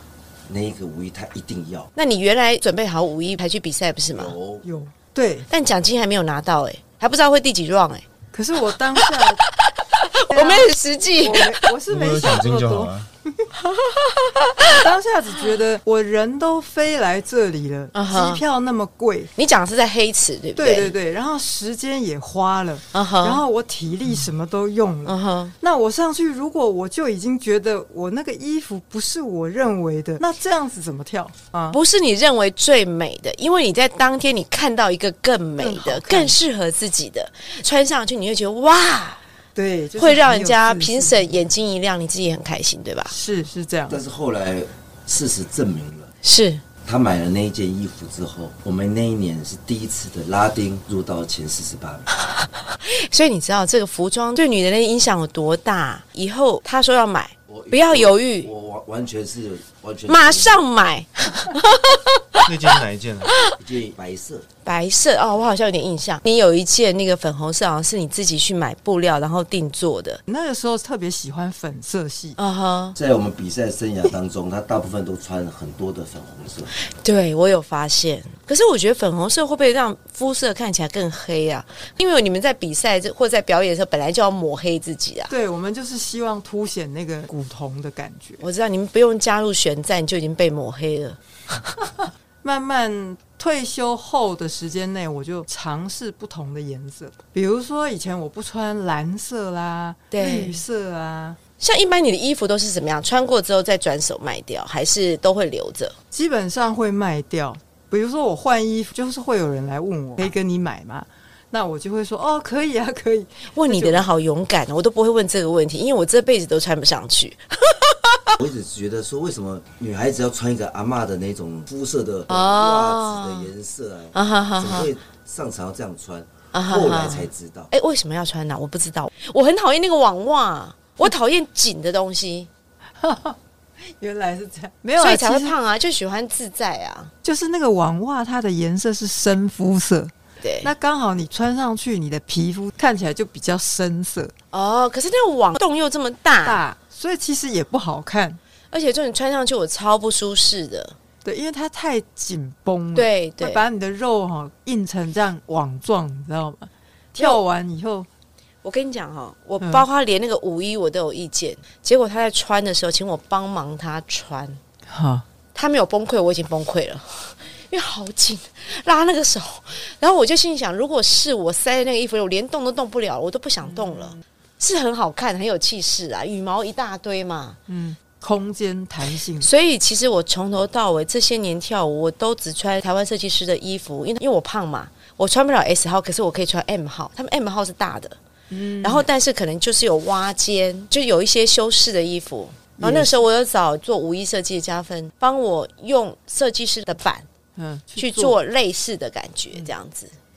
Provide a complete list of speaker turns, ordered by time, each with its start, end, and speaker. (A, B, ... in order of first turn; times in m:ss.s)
0:00.5-0:01.9 A
0:02.0-0:04.4 B
0:04.1-0:04.6 A
0:04.6-0:05.5 C
0:05.5-0:08.0 B
0:08.3-0:09.4 C
0:09.1-0:11.6 B
0:10.3-0:13.5 C
0:11.9-0:13.1 D
0:13.6-0:14.8 B
0:14.7-0:19.3 C
0:17.9-0:18.4 B
0:19.4-0:21.0 B
0:20.6-0:31.8 C
0:22.9-0:23.4 B
0:25.1-0:25.5 B
0:31.7-0:39.2 B
0:35.6-0:36.4 C
0:39.6-0:41.4 C
0:40.0-0:43.1 B
0:43.1-0:44.0 C
0:43.9-0:46.1 A
0:46.2-0:46.6 B
0:46.8-0:52.1 A
0:52.8-0:58.5 B
0:57.5-1:00.6 A
1:00.1-1:02.5 B
1:02.4-1:03.3 D
1:03.3-1:03.5 B
1:03.6-1:04.5 A
1:04.6-1:10.2 B
1:10.3-1:12.4 C
1:12.4-1:13.0 B
1:13.0-1:16.7 A
1:17.0-1:25.3 B
1:25.3-1:28.4 C
1:28.4-1:31.2 B
1:32.4-1:41.4 C
1:40.1-1:40.6 B
1:41.6-1:46.0 B
1:46.1-1:54.1 C
1:53.5-1:58.4 B
1:58.4-2:07.7 A
2:02.3-2:03.5 B
2:04.1-2:04.9 B
2:06.5-2:12.5 B
2:13.0-2:13.4 C
2:13.9-2:15.6 C
2:15.0-2:17.1 B
2:17.2-2:20.1 C
2:20.4-2:20.7 B
2:20.6-2:24.3 C
2:24.5-2:26.6 B
2:26.4-2:28.4 C
2:28.7-2:31.0 B
2:31.2-2:38.1 C
2:33.0-2:33.6 B
2:38.6-2:44.6 B
2:44.9-2:45.2 C
2:45.6-2:57.6 B
2:53.6-2:54.2 C
2:57.7-2:59.5 C
2:59.4-3:08.2 B
3:08.5-3:09.0 C
3:08.8-3:17.3 B
3:12.8-3:13.2 C
3:17.6-3:18.4 C
3:18.0-3:20.1 B